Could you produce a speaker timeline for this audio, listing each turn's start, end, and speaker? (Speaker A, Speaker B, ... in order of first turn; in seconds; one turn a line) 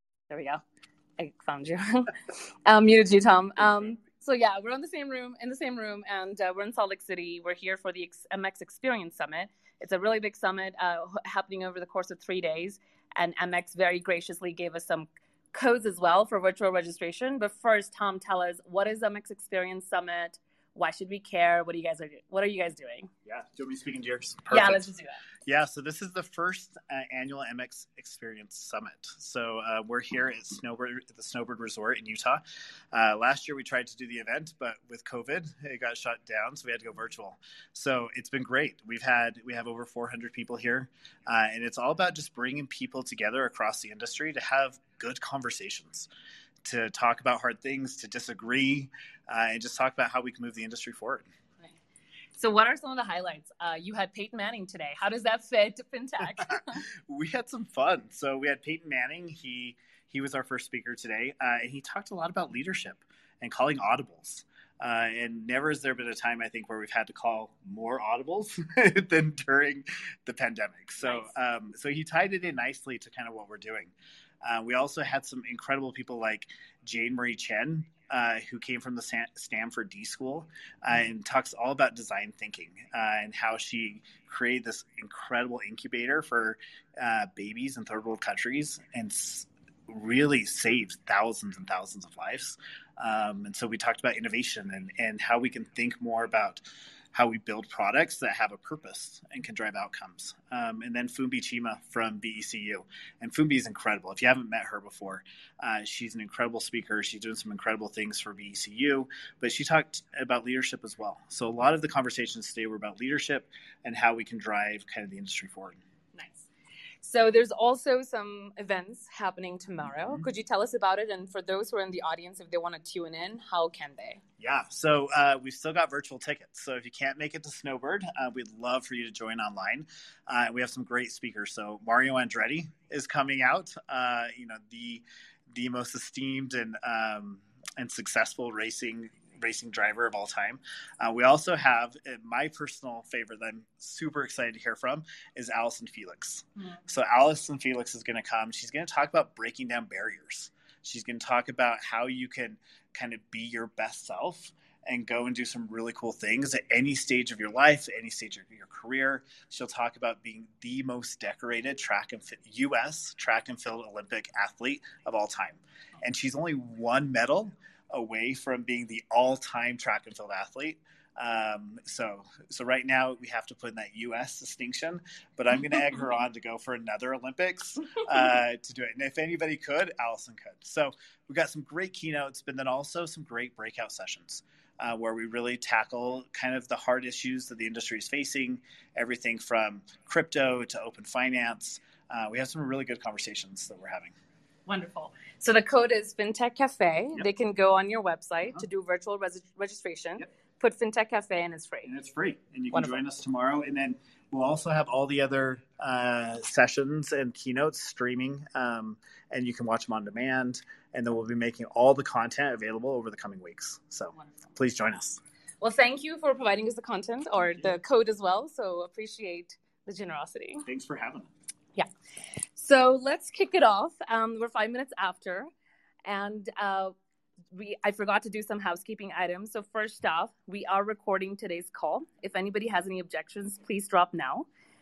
Speaker A: 0.3-0.6
Speaker A: 1.2-2.1
Speaker A: 2.6-23.1
Speaker B: 23.2-24.9
Speaker A: 24.5-25.2
Speaker B: 25.4-32.4
Speaker B: 32.9-46.1
Speaker B: 46.6-51.2
Speaker A: 52.4-56.8
Speaker B: 57.1-115.8
Speaker A: 116.1-116.5
Speaker A: 117.0-124.2
Speaker B: 124.4-194.1
Speaker A: 194.7-201.9
Speaker B: 201.8-215.2
Speaker A: 202.7-203.0
Speaker A: 215.6-220.6
Speaker B: 220.6-221.3
Speaker A: 222.6-225.5
Speaker A: 226.0-226.9
Speaker A: 227.5-234.5